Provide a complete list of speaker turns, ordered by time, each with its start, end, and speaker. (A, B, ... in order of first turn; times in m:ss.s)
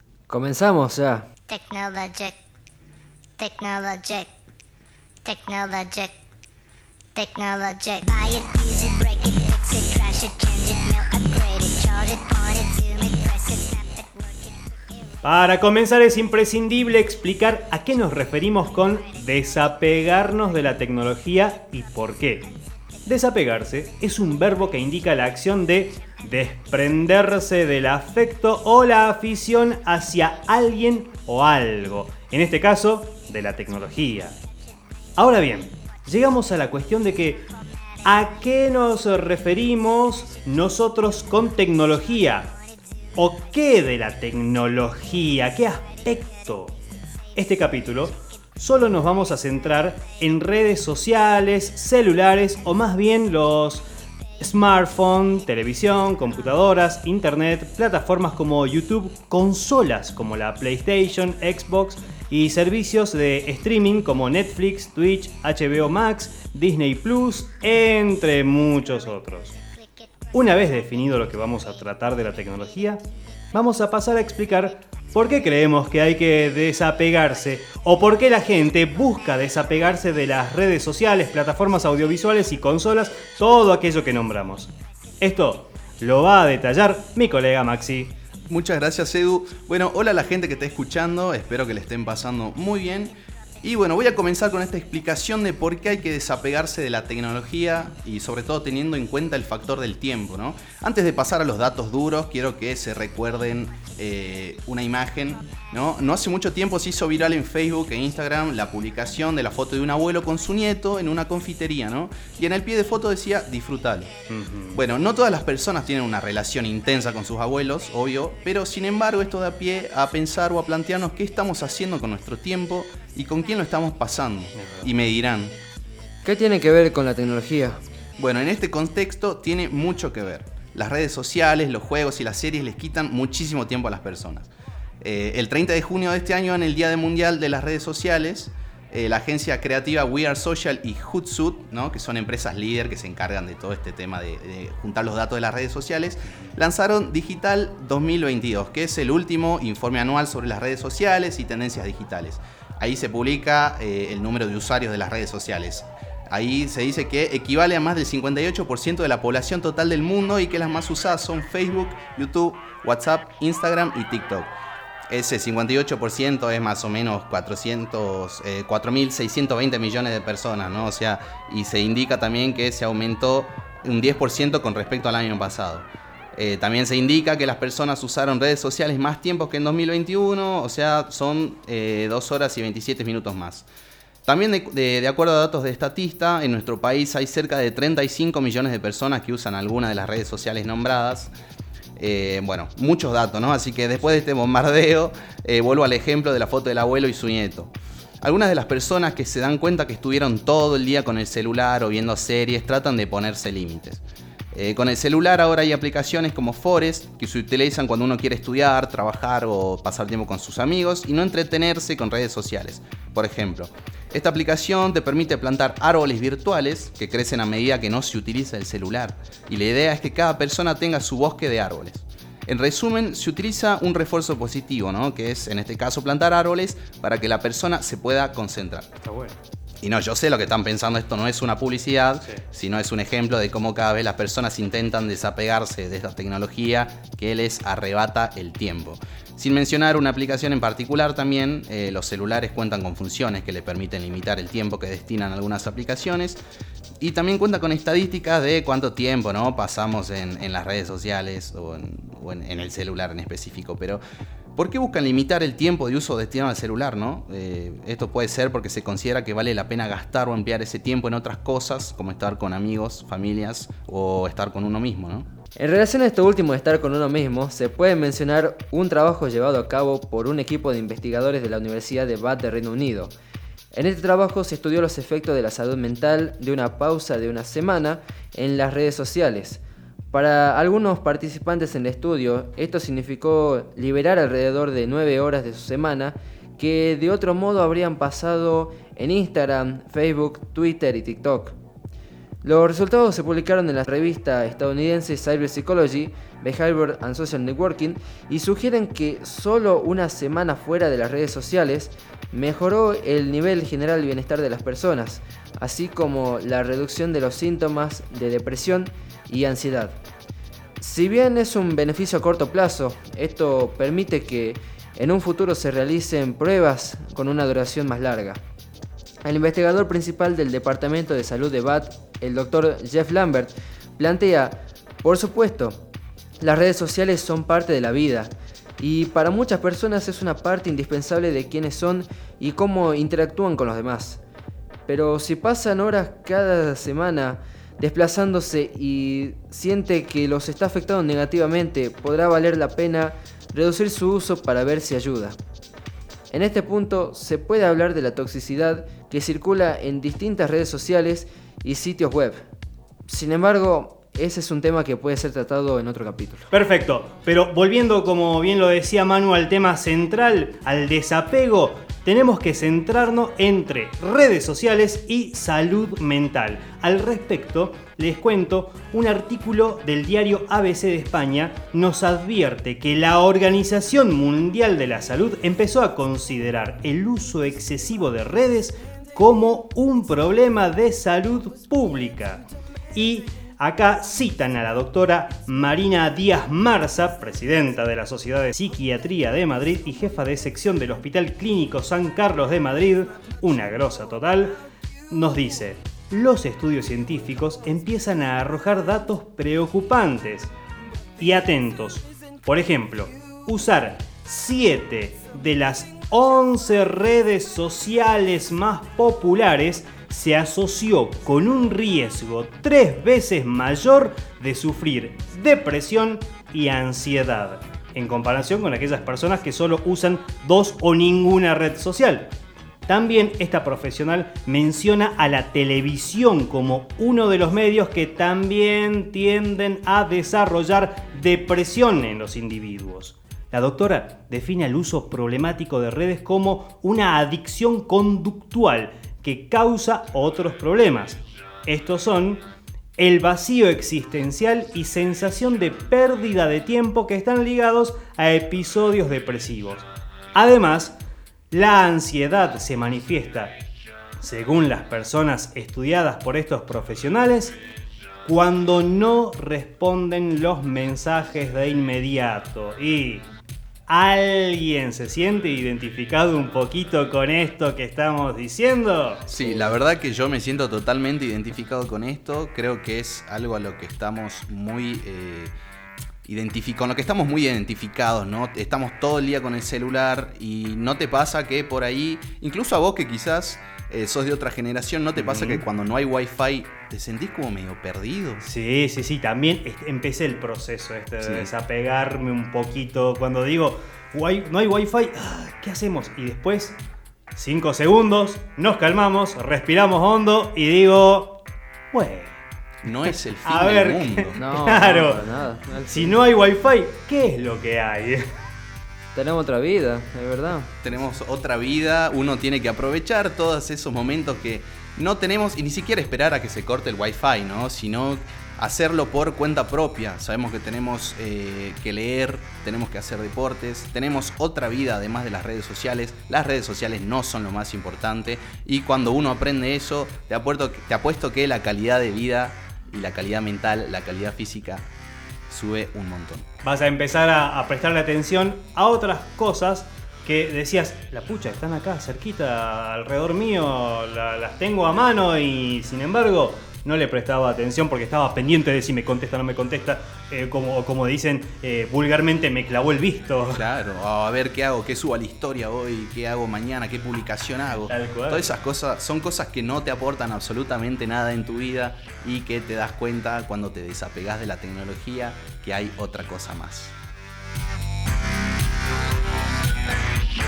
0:00.3-0:01.3 A
0:01.5-0:02.4 B
0:03.4-0:04.3 B
0:05.2-0:06.1 B
0:07.1-0:15.1 B
0:15.2-0:22.5 C
0:23.0-0:34.4 C
0:35.2-0:37.5 C
0:38.0-0:42.5 C
0:43.2-0:46.8 C
0:47.3-0:53.8 C
0:54.4-1:09.5 C
1:09.7-1:10.3 B
1:10.3-1:28.1 C
1:28.5-1:54.1 D
1:54.3-1:54.8 C
1:54.7-2:05.5 D
2:04.5-2:04.9 C
2:06.2-2:07.8 A
2:08.2-2:14.5 D
2:15.0-2:44.5 D
2:45.1-3:03.6 D
3:04.2-3:11.3 D
3:12.0-3:17.7 D
3:18.2-3:48.9 D
3:49.0-3:49.4 C
3:49.8-4:06.4 D
4:07.0-4:14.0 D
4:14.6-4:25.3 D
4:25.6-4:33.1 A
4:33.7-4:51.6 A
4:52.4-5:10.0 A
5:10.8-5:18.4 A
5:19.2-5:25.8 A
5:26.4-5:34.2 A
5:34.9-5:45.4 A
5:46.3-5:52.4 A
5:53.0-5:56.5 A
5:56.5-6:34.5 C
6:35.1-6:40.5 C
6:41.2-7:02.3 C
7:02.9-7:22.4 C
7:23.0-7:31.0 C
7:31.5-7:33.6 C
7:34.2-7:37.6 C
7:38.2-7:43.3 C
7:43.9-7:49.2 C
7:49.3-7:55.6 D
7:56.2-8:08.4 D
8:05.2-8:05.6 C
8:08.4-8:16.8 C
8:11.2-8:11.5 D
8:17.3-8:21.4 C
8:21.9-8:22.4 C
8:22.8-8:24.4 D
8:23.4-8:25.2 C
8:24.4-8:26.2 A
8:25.9-8:28.2 C
8:29.1-8:30.9 A
8:30.8-8:54.8 D
8:55.5-8:56.4 D
8:56.6-9:13.6 C
9:13.5-9:26.9 D
9:17.9-9:18.5 C